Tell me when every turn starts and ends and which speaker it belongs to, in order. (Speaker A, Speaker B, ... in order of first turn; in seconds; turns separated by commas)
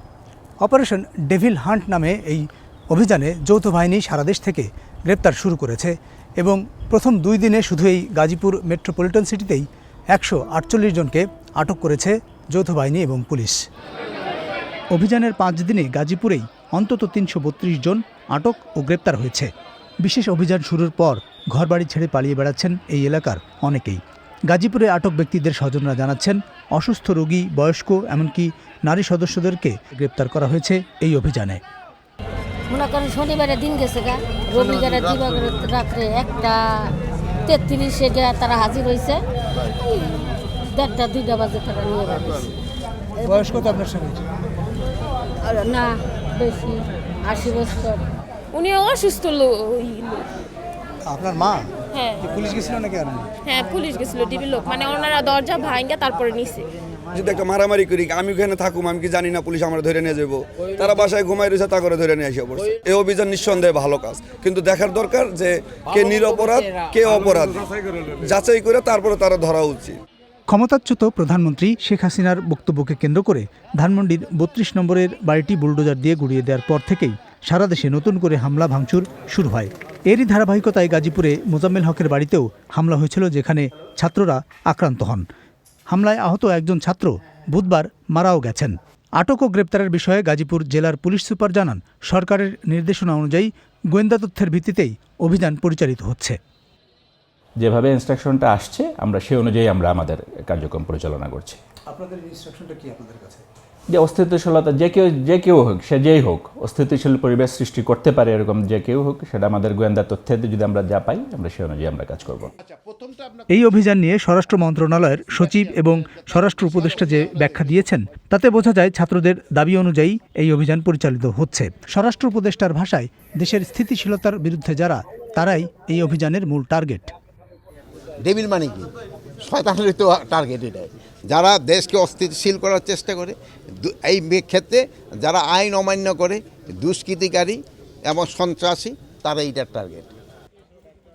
Speaker A: 0.6-13.6, Speaker A: 14.9-19.5, Speaker A: 20.0-31.6, Speaker B: 32.7-36.9, Speaker B: 37.5-39.2, Speaker B: 39.8-42.5, Speaker A: 43.2-44.2, Speaker B: 45.4-48.0, Speaker C: 48.5-50.3, Speaker A: 51.0-53.3, Speaker C: 51.9-52.2, Speaker C: 53.5-56.7, Speaker D: 57.1-67.7, Speaker D: 68.2-70.0, Speaker A: 70.5-85.2, Speaker A: 85.9-96.4, Speaker E: 97.6-101.6, Speaker A: 101.9-103.4, Speaker E: 103.9-112.5, Speaker A: 113.5-127.1, Speaker F: 128.3-128.8, Speaker F: 129.4-133.3, Speaker F: 133.8-137.6, Speaker F: 138.1-140.1